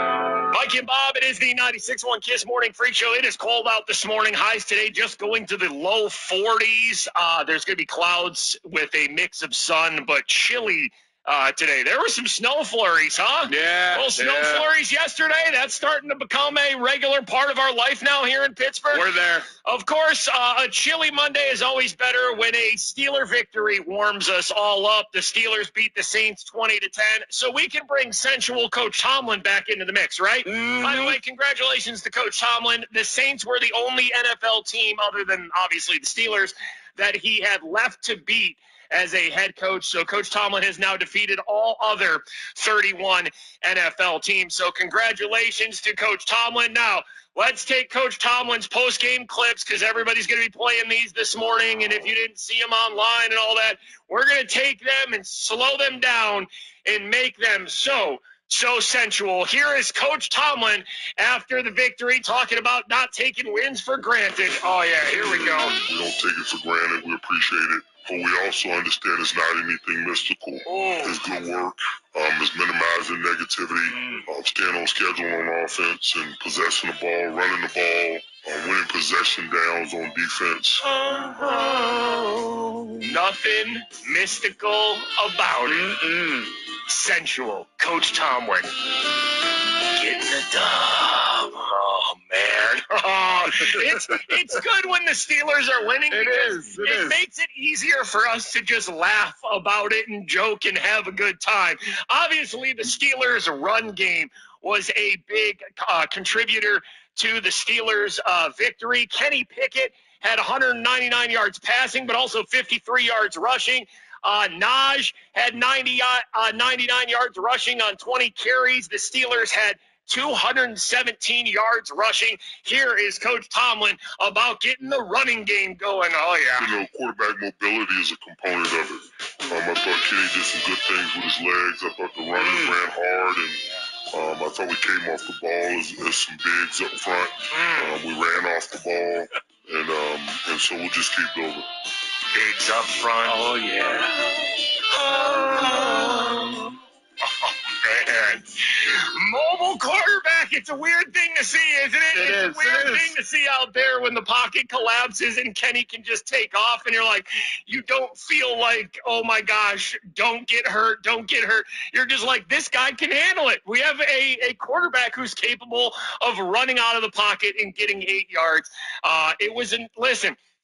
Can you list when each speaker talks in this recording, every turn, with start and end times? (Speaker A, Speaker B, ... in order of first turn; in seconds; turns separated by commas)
Speaker A: 0.5-19.1, Speaker B: 13.5-14.7, Speaker B: 18.9-19.5, Speaker A: 19.6-65.8, Speaker B: 30.4-31.2, Speaker C: 65.7-80.8, Speaker A: 70.7-71.1, Speaker A: 80.8-82.3, Speaker A: 83.0-86.0, Speaker B: 85.7-86.5, Speaker A: 86.9-88.7, Speaker A: 90.0-126.7, Speaker B: 93.6-94.2, Speaker B: 96.1-97.2, Speaker C: 126.6-141.7, Speaker B: 132.3-132.8, Speaker A: 137.5-137.8, Speaker A: 142.3-143.5, Speaker B: 143.2-144.3, Speaker A: 144.9-146.6, Speaker A: 147.8-170.4, Speaker B: 152.1-153.2